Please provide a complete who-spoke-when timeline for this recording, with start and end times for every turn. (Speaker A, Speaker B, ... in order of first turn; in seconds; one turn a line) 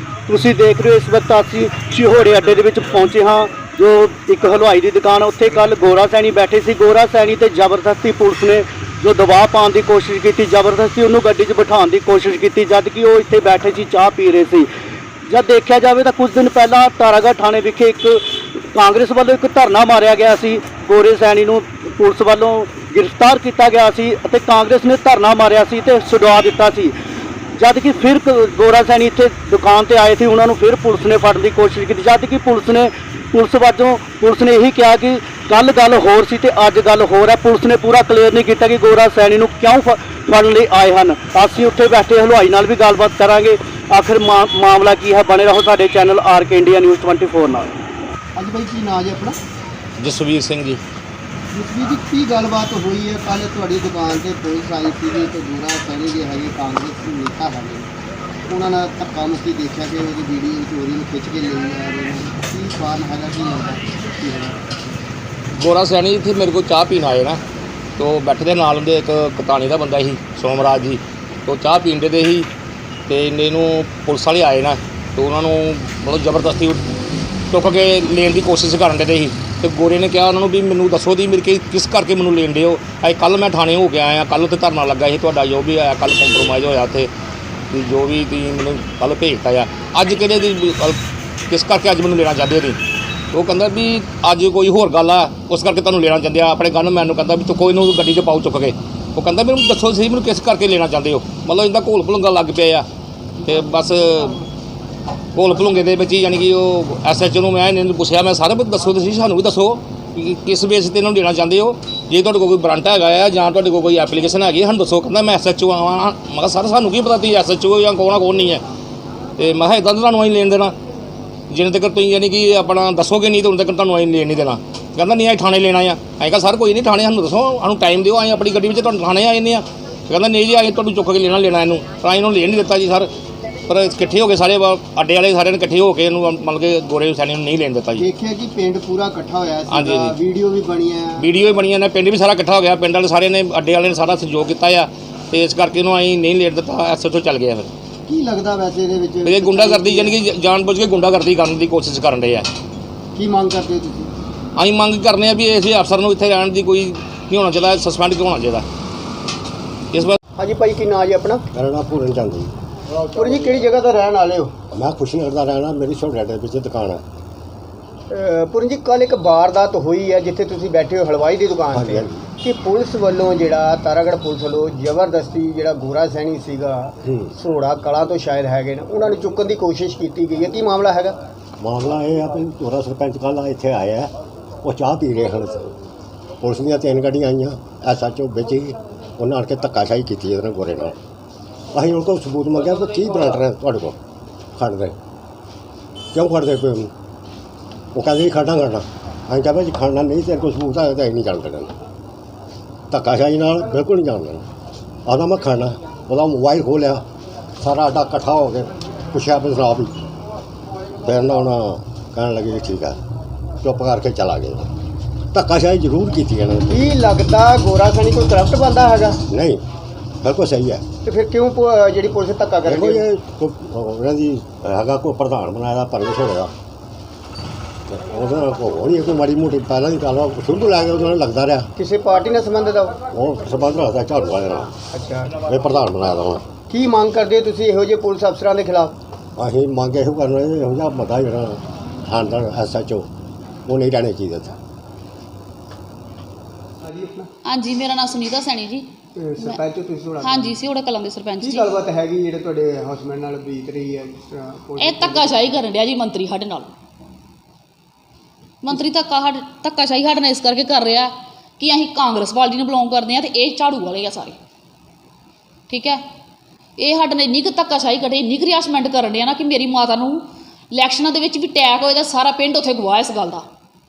Speaker A: 0.3-14.7
Speaker A: 15.3-26.9
Speaker A: 27.6-47.7
Speaker B: 48.3-49.4
Speaker C: 50.0-50.8
Speaker B: 51.5-57.9
Speaker B: 58.5-64.6
Speaker C: 65.5-67.4
Speaker C: 68.0-72.5
Speaker C: 73.1-76.8
Speaker C: 77.5-87.1
Speaker C: 87.7-91.0
Speaker C: 91.5-92.8
Speaker C: 93.3-102.8
Speaker C: 103.4-104.4
Speaker C: 105.3-118.6
Speaker C: 119.4-120.7
Speaker C: 121.5-133.1
Speaker C: 133.7-138.0
Speaker B: 138.0-141.3
Speaker C: 139.7-140.1
Speaker C: 141.2-147.7
Speaker B: 148.1-150.2
Speaker C: 149.2-152.5
Speaker B: 153.1-154.1
Speaker C: 154.6-158.7
Speaker C: 159.9-160.2
Speaker B: 160.4-161.4
Speaker D: 161.5-162.5
Speaker B: 163.1-164.5
Speaker D: 164.7-167.0
Speaker B: 168.1-181.2
Speaker D: 171.7-172.3
Speaker D: 177.0-177.3
Speaker D: 181.6-184.1
Speaker D: 184.6-185.8
Speaker D: 186.4-190.9
Speaker D: 191.7-194.0
Speaker D: 194.6-195.0
Speaker D: 196.1-196.9
Speaker D: 197.9-201.7
Speaker D: 202.9-204.4
Speaker D: 205.0-207.1
Speaker D: 207.6-209.9
Speaker D: 211.0-213.0
Speaker D: 213.6-214.7
Speaker D: 215.3-216.9
Speaker B: 216.7-219.2
Speaker D: 219.3-219.6
Speaker D: 220.2-220.8
Speaker B: 221.0-223.0
Speaker D: 222.7-226.5
Speaker D: 227.9-231.7
Speaker B: 231.8-233.0
Speaker D: 233.1-234.8
Speaker B: 234.9-235.4
Speaker D: 235.3-236.4
Speaker B: 236.7-238.9
Speaker D: 239.3-243.1
Speaker D: 243.7-244.5
Speaker B: 246.8-247.3
Speaker E: 247.4-248.9
Speaker B: 249.2-250.5
Speaker E: 250.2-251.7
Speaker B: 251.4-255.5
Speaker E: 254.8-256.7
Speaker E: 258.6-264.4
Speaker E: 265.7-266.0
Speaker E: 266.8-273.4